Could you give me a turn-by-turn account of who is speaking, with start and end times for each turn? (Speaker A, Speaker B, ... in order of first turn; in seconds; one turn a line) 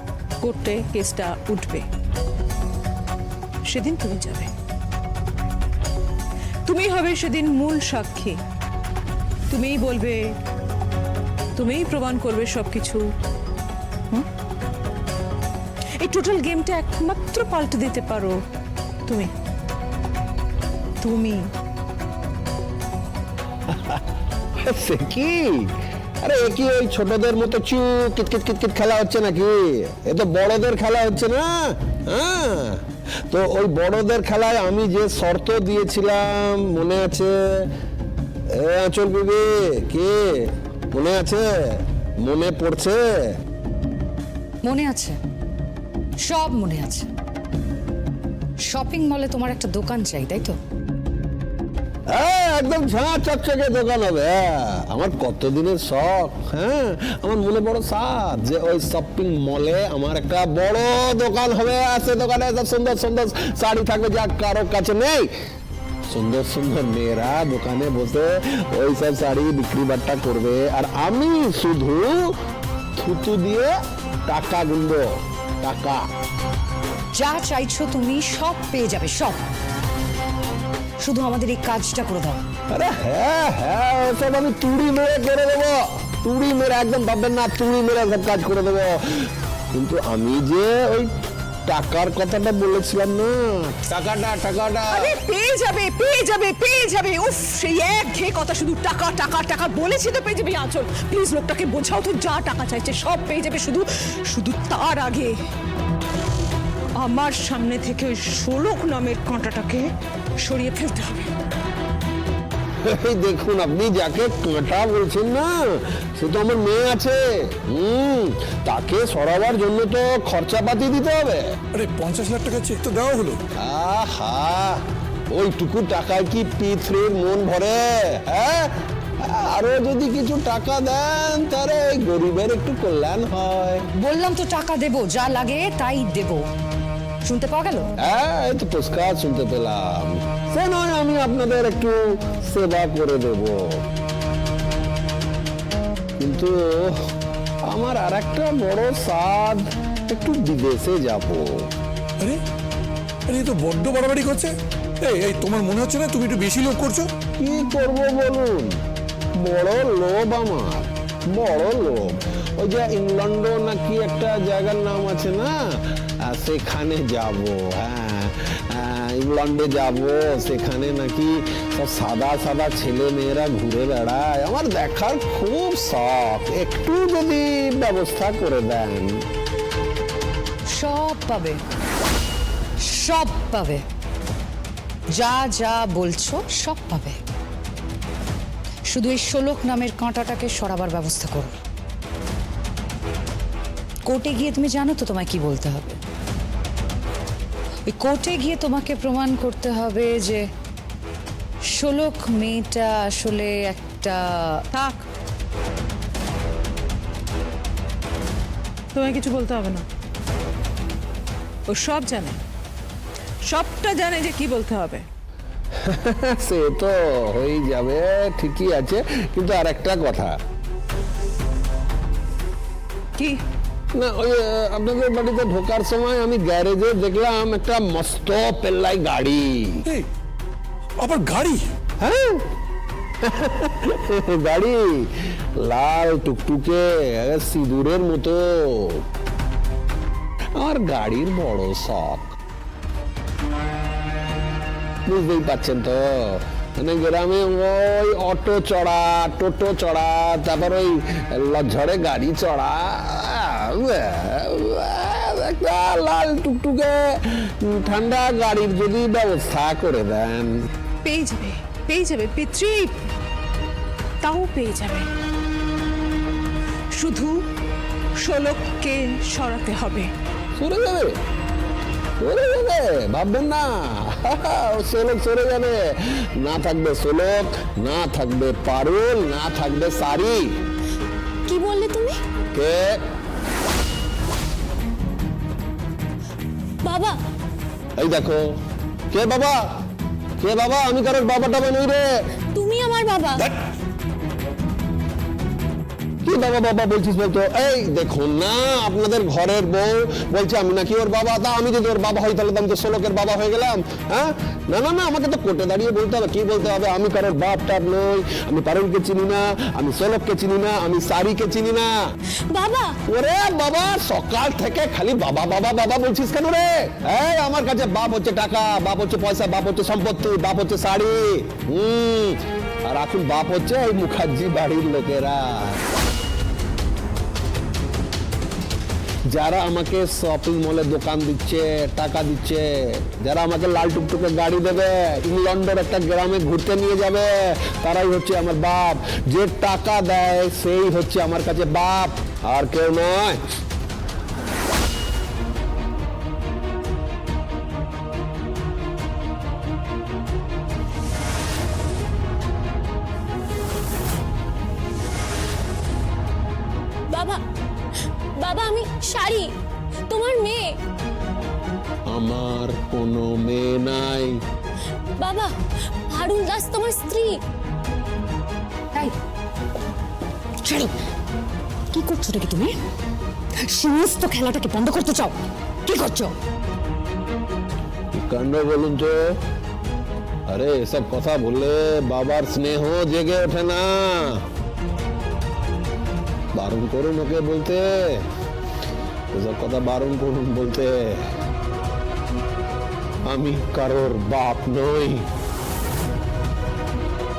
Speaker A: 0.4-1.9
Speaker A: 3.7-4.5
Speaker A: 6.7-8.4
Speaker A: 9.5-10.3
Speaker A: 11.6-13.0
Speaker A: 16.0-18.4
Speaker A: 21.0-21.4
Speaker B: 23.7-24.0
Speaker B: 24.6-25.7
Speaker B: 26.2-37.7
Speaker B: 38.5-43.4
Speaker C: 44.6-45.2
Speaker C: 46.2-47.1
Speaker C: 48.7-50.6
Speaker B: 52.1-65.3
Speaker B: 66.1-72.3
Speaker B: 73.0-73.7
Speaker B: 74.3-76.1
Speaker C: 77.2-79.4
Speaker C: 81.0-82.4
Speaker B: 82.7-91.1
Speaker B: 91.7-95.2
Speaker A: 94.9-105.3
Speaker A: 107.0-109.9
Speaker A: 110.4-111.3
Speaker B: 112.8-121.5
Speaker D: 121.7-123.4
Speaker B: 123.6-133.9
Speaker C: 134.0-136.5
Speaker C: 137.2-137.9
Speaker B: 138.0-143.8
Speaker B: 146.2-147.1
Speaker B: 147.7-151.7
Speaker D: 153.3-157.1
Speaker B: 157.4-158.8
Speaker B: 159.4-179.2
Speaker C: 180.7-181.6
Speaker C: 182.8-183.8
Speaker C: 185.1-187.2
Speaker C: 188.9-191.6
Speaker C: 194.1-196.0
Speaker C: 197.9-200.5
Speaker C: 201.7-204.6
Speaker A: 204.7-205.1
Speaker A: 208.9-209.8
Speaker A: 211.7-212.4
Speaker A: 213.5-215.1
Speaker B: 215.8-220.4
Speaker B: 223.9-229.8
Speaker D: 231.0-231.6
Speaker B: 232.0-232.5
Speaker B: 233.2-239.0
Speaker B: 240.6-242.3
Speaker B: 245.1-260.6
Speaker A: 261.1-263.0
Speaker A: 264.2-265.1
Speaker A: 266.9-267.4
Speaker A: 268.2-270.1
Speaker B: 270.6-271.2
Speaker B: 272.2-280.6
Speaker E: 281.5-282.2
Speaker B: 282.5-283.0
Speaker E: 286.8-287.2
Speaker B: 288.0-288.4
Speaker B: 289.1-289.8
Speaker B: 290.4-292.2
Speaker E: 292.5-293.5
Speaker B: 296.2-312.1
Speaker E: 312.5-313.0
Speaker B: 313.1-325.8
Speaker B: 329.3-343.4
Speaker E: 357.1-357.4
Speaker E: 358.4-359.5
Speaker E: 360.1-360.8
Speaker B: 362.1-364.4
Speaker E: 365.2-365.5
Speaker E: 366.1-367.4
Speaker C: 370.6-370.9
Speaker C: 371.9-372.8
Speaker C: 373.6-376.3
Speaker B: 378.1-379.4
Speaker B: 380.5-384.4
Speaker B: 386.5-388.3
Speaker B: 389.3-391.3
Speaker B: 393.2-395.3